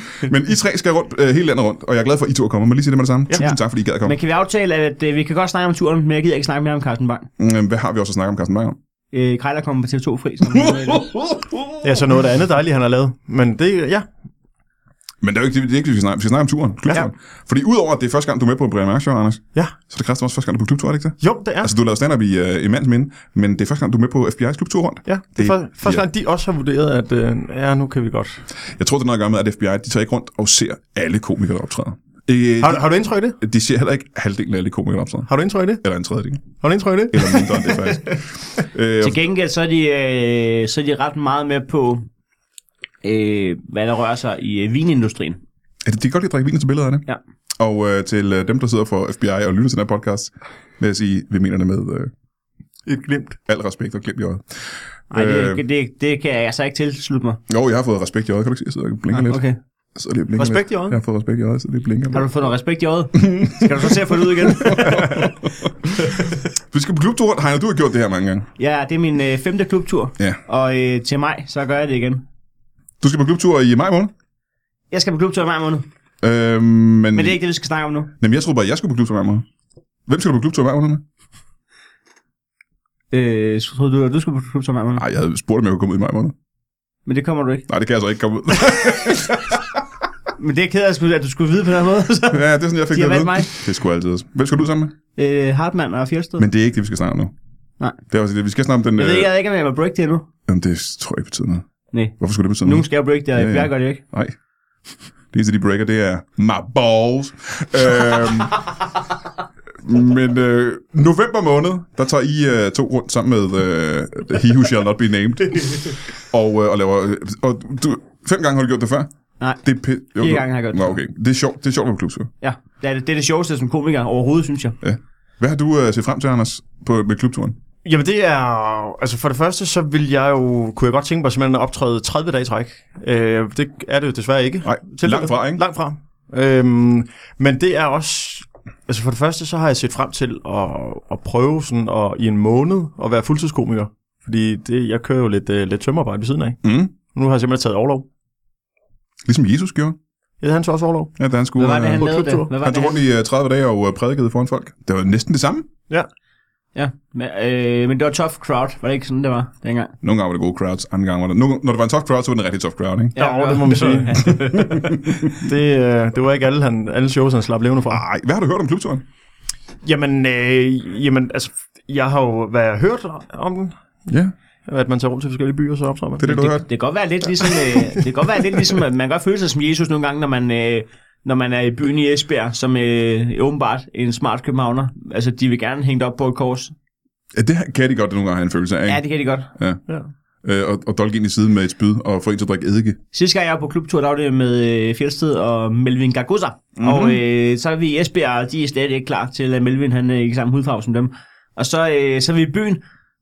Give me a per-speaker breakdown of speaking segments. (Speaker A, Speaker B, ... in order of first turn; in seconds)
Speaker A: 0.2-4.1, 7.4-8.8, 10.6-11.8, 15.2-26.0, 28.8-32.9, 33.4-35.3, 35.8-36.5, 37.1-39.2, 45.9-47.0, 47.6-52.1, 53.5-54.4, 55.1-55.6, 57.5-59.4, 59.9-62.2, 63.2-63.9, 64.5-65.9, 66.7-68.5, 73.0-74.1, 76.2-77.4, 78.2-79.4, 80.1-81.0, 85.0-86.3, 87.7-89.6, 92.3-95.0, 96.4-97.3, 98.1-99.3, 100.5-101.7, 102.2-104.3, 105.3-108.6, 109.8-119.1, 119.6-122.3, 124.8-127.6, 134.6-135.6, 146.6-146.9, 149.2-150.0, 151.2-152.0, 152.6-155.7, 160.0-163.2, 164.2-165.3, 167.9-169.0, 174.1-174.3, 176.2-176.7, 187.3-189.0, 189.5-189.8, 190.4-193.0, 196.8-197.2
Speaker B: 3.4-7.3, 9.1-11.1, 39.0-42.1, 43.0-45.4, 55.1-57.4, 59.1-59.6, 62.1-65.3, 66.0-66.4, 68.6-72.2, 74.9-75.8, 77.1-78.1, 83.1-85.0, 87.1-87.7, 90.4-93.5, 95.2-96.4, 99.0-100.2, 101.9-104.0, 120.2-121.0, 122.4-124.8, 151.6-153.0, 156.8-159.9, 163.1-165.1, 176.3-186.7, 188.9-189.5, 193.1-202.8
Speaker C: 11.8-14.1, 21.2-21.7, 25.1-28.4, 32.6-33.4, 35.3-35.8, 36.6-38.0, 52.9-53.4, 60.4-61.0, 127.8-148.1, 150.4-151.1, 151.9-152.5, 163.2-164.3, 165.3-168.0, 169.8-173.8, 174.7-176.5, 177.7-178.0